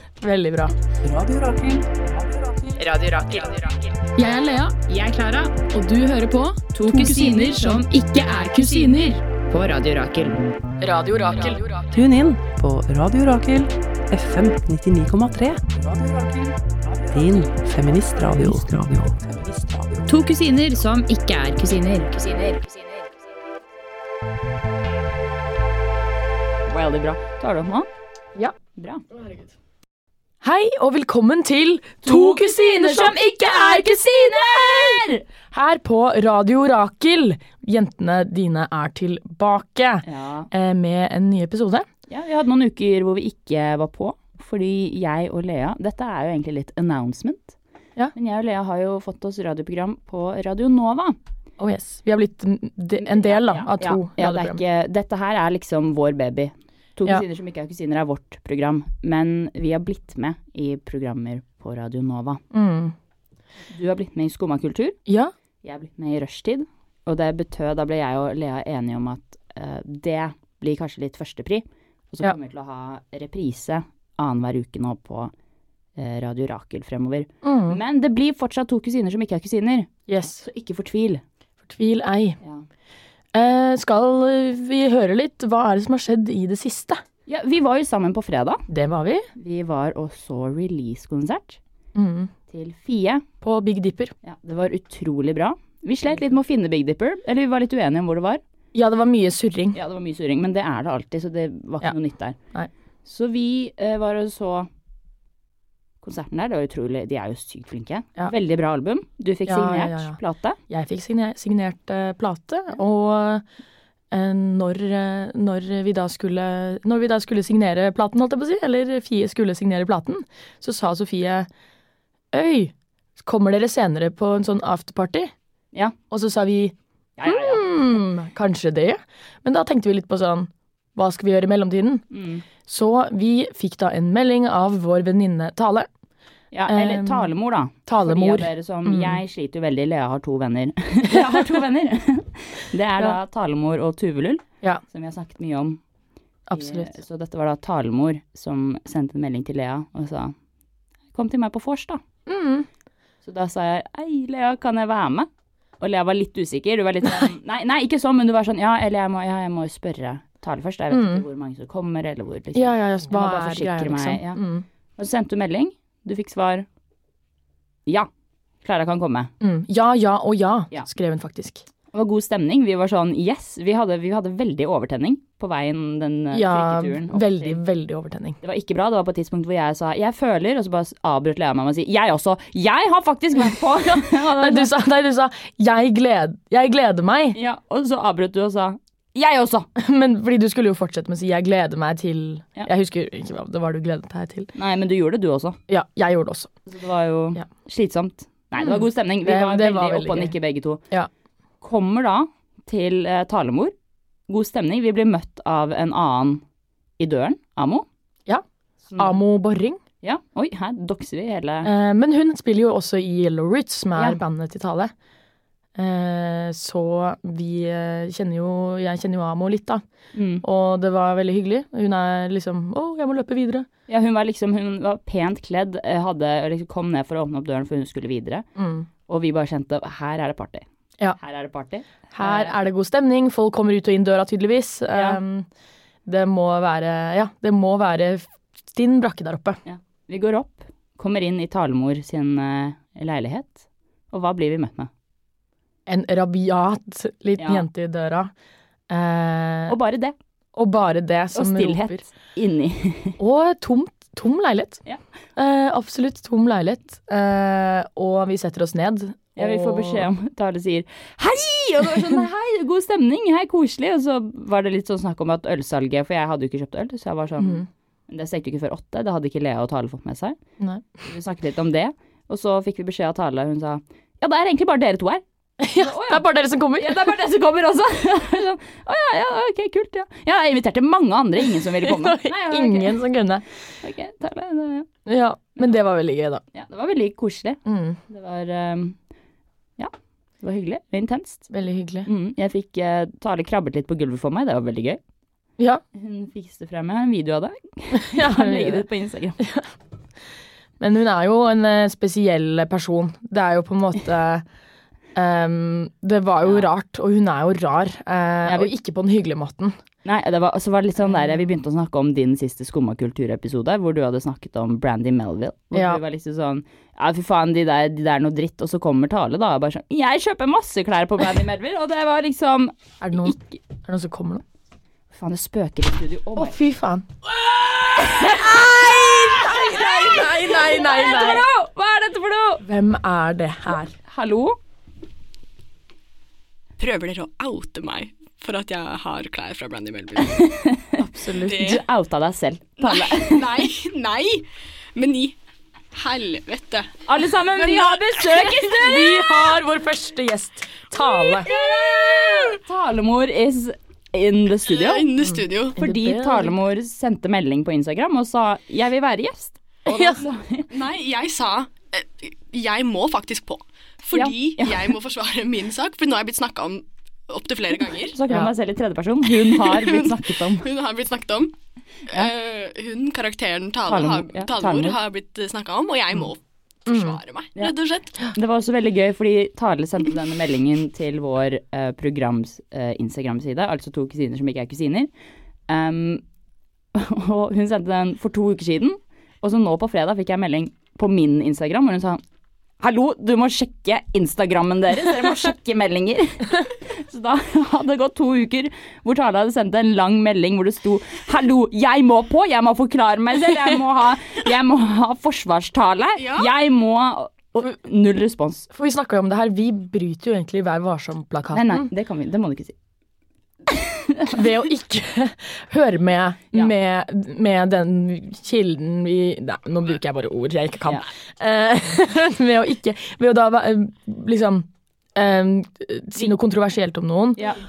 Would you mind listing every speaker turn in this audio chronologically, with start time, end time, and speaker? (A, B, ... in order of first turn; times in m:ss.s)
0:00.2-0:00.7 A
0:01.0-0:02.8 B
0:02.8-0:03.9 C
0:04.2-0:04.9 A
0:04.8-0:05.7 C
0:05.6-0:09.1 A
0:06.7-0:10.4 C
0:10.8-0:11.9 A
0:11.9-0:20.2 B
0:20.1-0:23.0 C
0:26.7-0:27.9 D
0:28.8-0:29.0 D
0:29.1-0:29.5 E
0:30.4-0:41.9 A
0:32.0-0:35.2 D
0:40.0-0:40.5 D
0:42.1-0:47.6 D
0:48.1-0:51.2 D
0:51.6-0:54.6 A
0:53.0-1:02.4 D
1:02.5-1:02.9 A
1:03.7-1:05.0 D
1:05.1-1:05.3 A
1:05.6-1:15.3 D
1:16.0-1:21.2 D
1:17.4-1:17.8 A
1:20.1-1:20.4 A
1:21.7-1:22.4 A
1:23.3-1:27.0 A
1:27.3-1:28.6 D
1:28.7-1:29.3 A
1:29.4-1:31.6 D
1:31.9-1:32.3 A
1:32.5-1:33.2 D
1:33.4-1:34.1 A
1:34.2-1:38.4 D
1:38.7-1:39.8 A
1:39.7-1:42.4 D
1:43.0-1:44.7 D
1:46.0-1:50.6 D
1:49.4-1:50.2 A
1:50.7-1:53.4 A
1:54.1-2:01.5 A
2:02.3-2:05.3 A
2:06.1-2:12.0 A
2:07.2-2:07.7 D
2:12.1-2:12.4 D
2:12.6-2:15.9 A
2:16.5-2:25.8 D
2:16.7-2:17.3 A
2:17.8-2:19.2 A
2:26.5-2:26.9 A
2:26.5-2:30.3 D
2:31.1-2:32.0 D
2:32.3-2:32.7 A
2:33.2-2:35.3 D
2:35.8-2:44.4 D
2:40.9-2:41.2 A
2:42.5-2:44.6 A
2:45.0-2:46.6 D
2:48.6-2:49.3 D
2:49.4-2:51.6 A
2:51.9-2:57.6 D
2:56.3-2:58.4 A
2:58.4-3:04.7 D
3:04.0-3:07.4 A
3:07.3-3:09.7 D
3:09.8-3:14.5 A
3:14.5-3:15.6 D
3:15.7-3:16.5 A
3:16.6-3:20.8 D
3:18.6-3:20.3 A
3:21.6-3:23.7 D
3:24.3-3:26.4 D
3:27.0-3:27.8 D
3:28.9-3:29.2 D
3:29.0-3:29.8 A
3:30.0-3:31.7 D
3:31.6-3:34.9 A
3:35.8-3:39.8 A
3:40.1-3:40.4 D
3:40.4-3:43.7 A
3:43.9-3:48.5 D
3:48.6-3:48.9 A
3:49.1-3:50.6 D
3:51.2-3:52.5 D
3:52.1-3:55.5 A
3:54.9-3:55.2 D
3:56.0-3:59.6 A
3:59.6-4:04.9 D
4:05.9-4:08.3 A
4:07.4-4:07.7 D
4:08.9-4:09.7 A
4:09.7-4:10.1 D
4:10.5-4:12.0 A
4:11.3-4:13.2 D
4:13.2-4:14.8 A
4:15.4-4:20.1 A
4:19.4-4:30.4 D
4:27.4-4:27.6 A
4:30.6-4:30.9 A
4:31.1-4:36.3 D
4:35.6-4:37.2 A
4:36.8-4:43.0 D
4:41.8-4:43.4 A
4:43.8-4:44.9 D
4:45.0-4:46.4 A
4:46.5-4:49.0 D
4:47.6-4:48.0 A
4:49.8-4:51.5 D
4:51.5-4:52.1 A
4:52.0-4:55.0 D
4:55.9-4:59.4 D
4:57.9-4:58.8 A
4:59.4-4:59.7 A
5:00.8-5:04.4 A
5:05.1-5:09.7 A
5:08.4-5:08.7 D
5:10.0-5:23.5 D
5:11.1-5:11.4 A
5:15.7-5:16.0 A
5:23.0-5:24.4 A
5:25.1-5:26.6 D
5:26.4-5:27.0 A
5:27.9-5:32.6 D
5:28.1-5:31.4 A
5:32.6-5:33.9 A
5:34.0-5:34.6 D
5:36.8-5:40.5 E
5:40.2-5:43.7 D
5:41.0-5:41.6 A
5:41.4-5:41.8 E
5:42.8-5:45.4 E
5:45.9-5:47.0 E
5:47.1-5:49.3 D
5:47.5-5:48.8 E
5:48.7-5:51.5 A
5:51.2-5:52.5 E
5:51.4-5:55.1 D
5:54.6-5:55.8 E
5:55.3-5:56.6 A
5:55.8-6:00.7 D
5:59.8-6:00.2 A
6:00.7-6:08.2 E
6:04.1-6:04.9 D
6:08.0-6:10.7 D
6:09.5-6:11.5 E
6:12.1-6:18.1 E
6:13.8-6:15.0 D
6:16.9-6:17.2 A
6:18.3-6:25.1 D
6:25.7-6:26.2 D
6:26.9-6:32.2 D
6:32.8-6:48.7 D
6:46.2-6:46.5 E
6:48.7-6:51.9 A
6:51.5-6:52.7 D
6:53.7-6:54.4 D
6:54.3-7:07.4 A